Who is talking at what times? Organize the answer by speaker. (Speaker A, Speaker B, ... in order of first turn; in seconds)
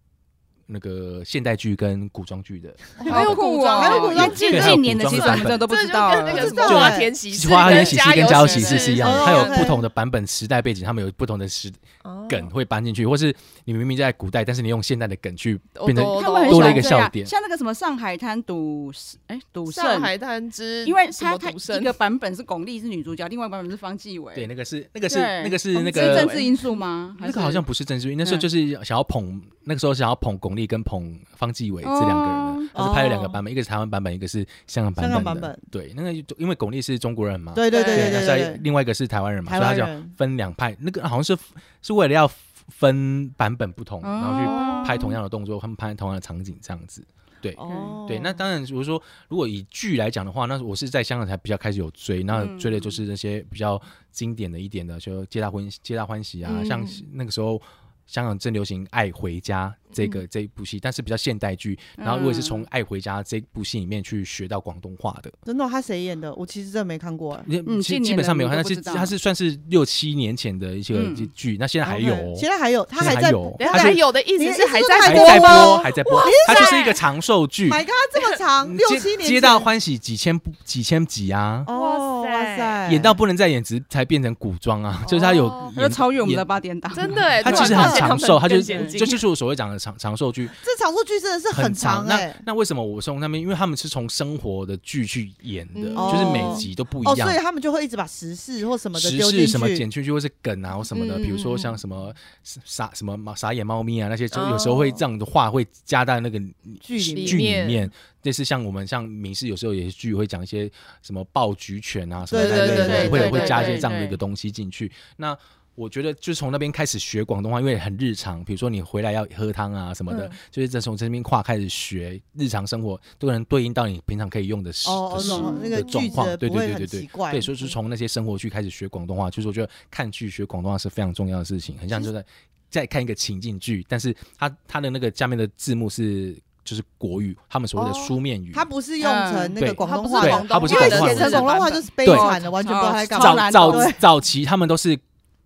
Speaker A: 0.7-3.4, 4.1-5.7, 6.6-17.3, 24.3-26.4, 27.2-65.3, 67.5-74.0, 75.0-77.8, 78.6-81.7, 82.9-86.5, 87.2-90.6, 91.5-97.4, 99.0-138.7, 139.6-141.5, 142.0-142.4, 143.1-145.0
Speaker B: 3.0-9.8, 12.0-12.5, 15.8-17.0, 19.7-22.0, 25.9-26.5, 37.7-38.5, 56.5-57.0, 73.6-77.0, 81.7-82.8, 85.3-85.7, 86.9-89.2, 95.8-96.7, 100.9-101.8, 104.3-105.0, 107.2-107.9, 112.3-113.9, 120.1-120.4, 125.3-126.3, 137.8-138.1, 139.8-141.9
Speaker C: 3.0-4.7, 6.2-7.1, 9.0-9.8, 32.7-33.4, 35.0-35.6, 37.5-38.6, 39.5-40.1, 44.5-44.8, 47.6-48.4, 65.5-67.5, 71.8-76.8, 77.7-79.7, 81.7-83.2, 87.6-88.1, 90.6-92.4, 96.0-99.8, 106.8-107.5, 112.3-113.5, 124.8-127.7, 138.5-144.0
Speaker D: 3.1-6.9, 7.6-9.4, 16.1-20.1, 20.9-24.5, 25.1-27.6, 31.8-32.7, 44.0-45.1, 52.3-53.0, 62.0-62.6, 67.7-69.1, 70.9-71.3, 85.7-88.1, 88.7-89.0, 112.7-114.2, 125.2-125.6, 139.0-139.6, 141.0-141.4, 142.0-143.9